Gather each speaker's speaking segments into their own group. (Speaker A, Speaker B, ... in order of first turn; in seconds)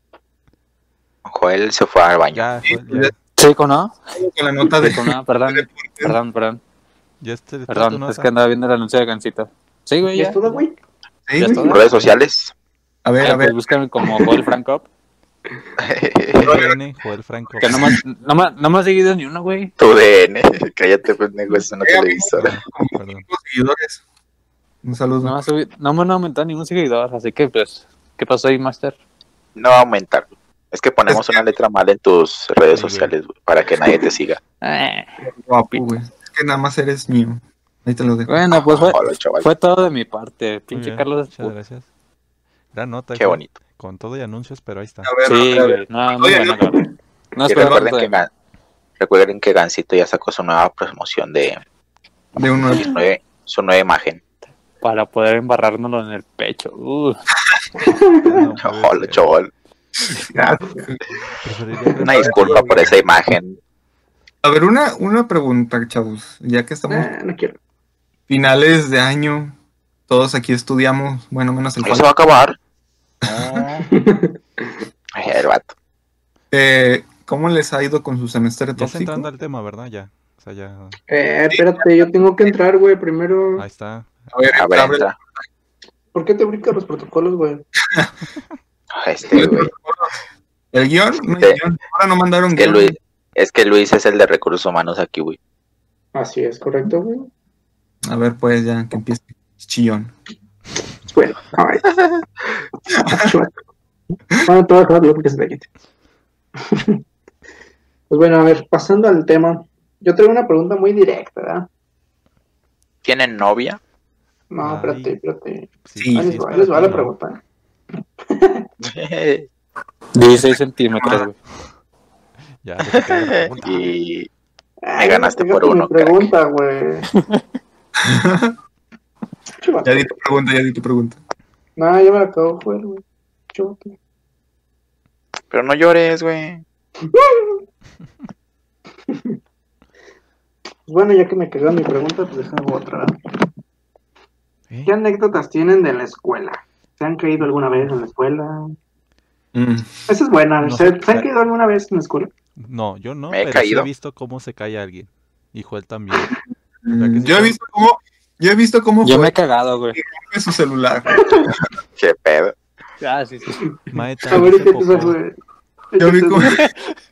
Speaker A: 1.2-2.5, 11.6-12.5, 15.8-16.5, 19.8-22.5, 29.6-34.4, 38.5-39.5, 43.1-43.5, 47.5-48.3, 49.0-51.6, 52.7-54.2, 58.6-59.5, 62.0-63.6, 71.8-72.6, 73.2-73.9, 75.1-75.7, 84.5-85.1, 88.9-89.7, 92.5-95.4, 113.0-113.8, 118.8-119.5, 122.9-124.3, 125.0-126.3, 135.5-136.6, 153.3-153.9, 161.9-162.6
Speaker B: 2.3-3.1, 7.2-8.3, 16.3-17.9, 22.4-23.3, 32.7-33.1, 40.7-41.9, 42.7-45.1, 58.2-59.3, 61.4-63.1, 78.8-81.0, 83.6-84.1, 114.6-115.1, 115.8-117.1, 122.6-124.0, 144.7-144.9, 150.6-151.3, 152.6-156.3, 156.9-157.6, 163.9-165.2
Speaker C: 2.7-3.1, 4.1-6.2, 11.3-11.8, 13.1-13.6, 16.4-16.8, 21.8-24.0, 24.8-25.4, 31.1-31.4, 35.2-38.5, 45.0-46.8, 52.4-53.0, 60.1-61.0, 62.1-62.6, 64.4-67.1, 68.3-69.5, 70.1-72.2, 76.5-79.3, 84.3-85.2, 89.3-90.2, 90.7-93.0, 98.1-100.1, 103.0-103.3, 116.0-116.3, 121.0-121.3, 128.0-128.6, 129.8-131.2, 149.5-150.1, 156.8-159.3, 159.9-161.6, 166.0-166.7
Speaker D: 3.4-4.0, 4.7-6.6, 7.7-10.6, 11.4-11.8, 13.2-14.9, 17.6-19.7, 25.2-28.9, 34.6-35.1, 38.3-41.5, 45.2-48.1, 54.8-57.2, 120.1-121.3, 127.2-127.4, 159.0-160.0, 163.0-163.6, 166.6-166.9
Speaker E: 10.1-10.7, 57.8-58.2, 66.9-67.6, 73.8-74.3, 81.1-83.7, 86.1-87.6, 96.1-97.3, 101.1-101.9, 103.0-103.5, 104.5-105.7, 106.7-107.0, 108.1-111.7, 114.5-117.4, 118.3-118.7, 124.8-127.1, 129.6-130.3, 131.8-133.9, 137.1-137.6, 140.9-143.1, 144.9-148.8, 150.1-152.3, 164.3-165.4, 165.9-166.5